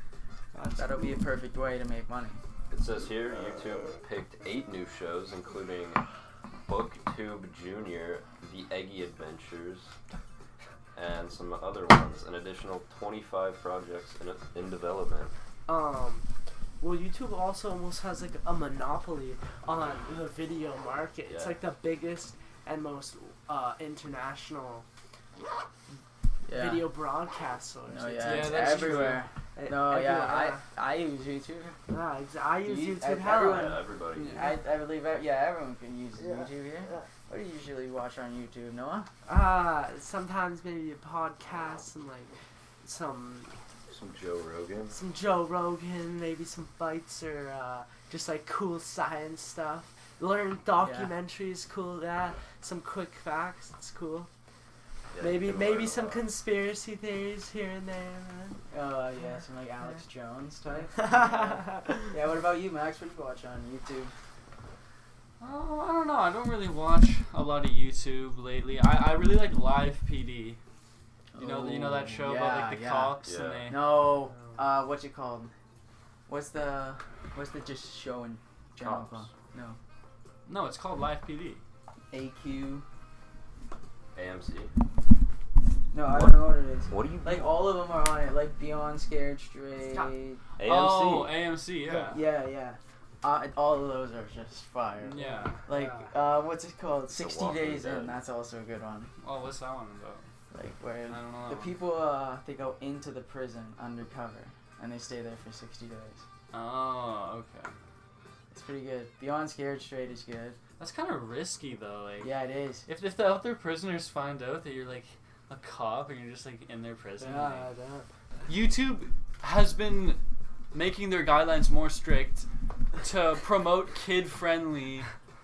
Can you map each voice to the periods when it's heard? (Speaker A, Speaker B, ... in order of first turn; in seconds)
Speaker A: 0.5-1.2, 15.7-16.2, 16.8-24.9, 26.5-30.6, 31.9-34.5, 36.1-37.1, 39.2-43.6, 44.9-54.3, 55.2-58.6, 60.9-62.0, 74.3-74.6, 91.8-92.2, 95.1-96.1, 117.2-118.1
Speaker B: 0.7-2.4, 26.4-26.9, 27.9-31.8, 32.6-39.1, 50.8-51.1, 58.7-64.1, 71.3-75.5, 76.3-79.8, 82.1-82.8, 85.9-90.4, 92.1-99.1, 100.5-106.2, 108.5-110.6, 112.2-112.8
Speaker C: 2.7-6.0, 6.7-9.9, 10.9-15.3, 21.3-21.6, 33.4-34.4, 43.9-45.0, 55.1-56.2, 73.2-73.7, 78.8-79.3, 84.1-84.7, 86.1-87.5, 90.6-91.3, 97.1-98.2
Speaker D: 28.2-29.2, 65.4-70.6, 71.3-73.8, 80.5-81.6, 90.6-92.2, 95.0-95.6, 99.2-100.3, 101.1-101.8, 106.5-107.7, 110.8-112.3, 112.8-117.7, 118.5-120.2, 120.7-122.5, 123.0-125.1